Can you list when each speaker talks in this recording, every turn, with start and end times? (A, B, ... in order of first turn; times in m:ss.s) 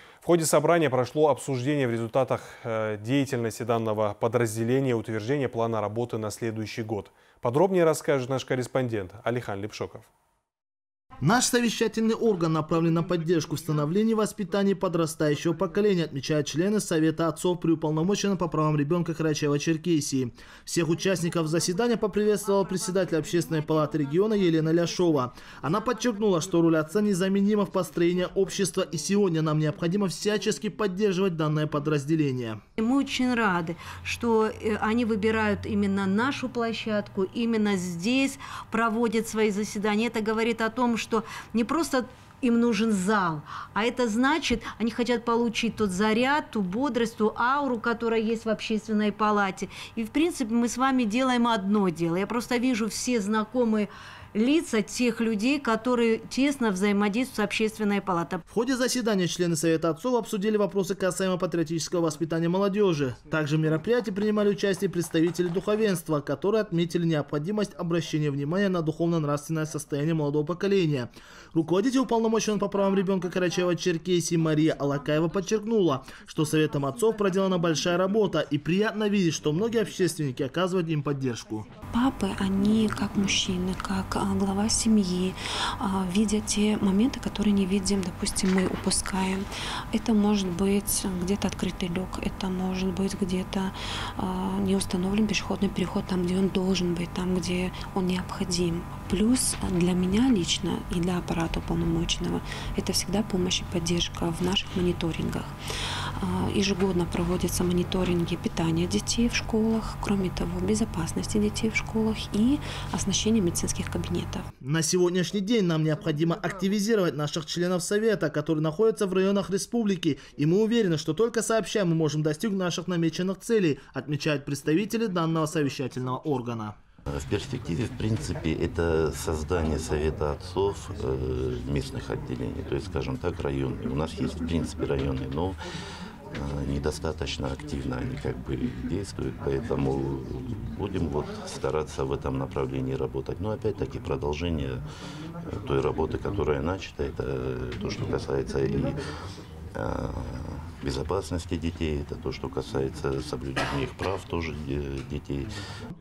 0:00.2-0:10.1 A
0:11.2-0:32.6 B
0:32.8-0:58.4 C
0:58.5-1:21.7 B
1:21.9-1:45.5 D
1:46.2-1:54.5 D
1:54.6-2:06.8 B
2:07.1-2:15.6 E
2:16.3-2:24.8 E
2:25.4-2:29.0 E
2:29.7-2:35.5 E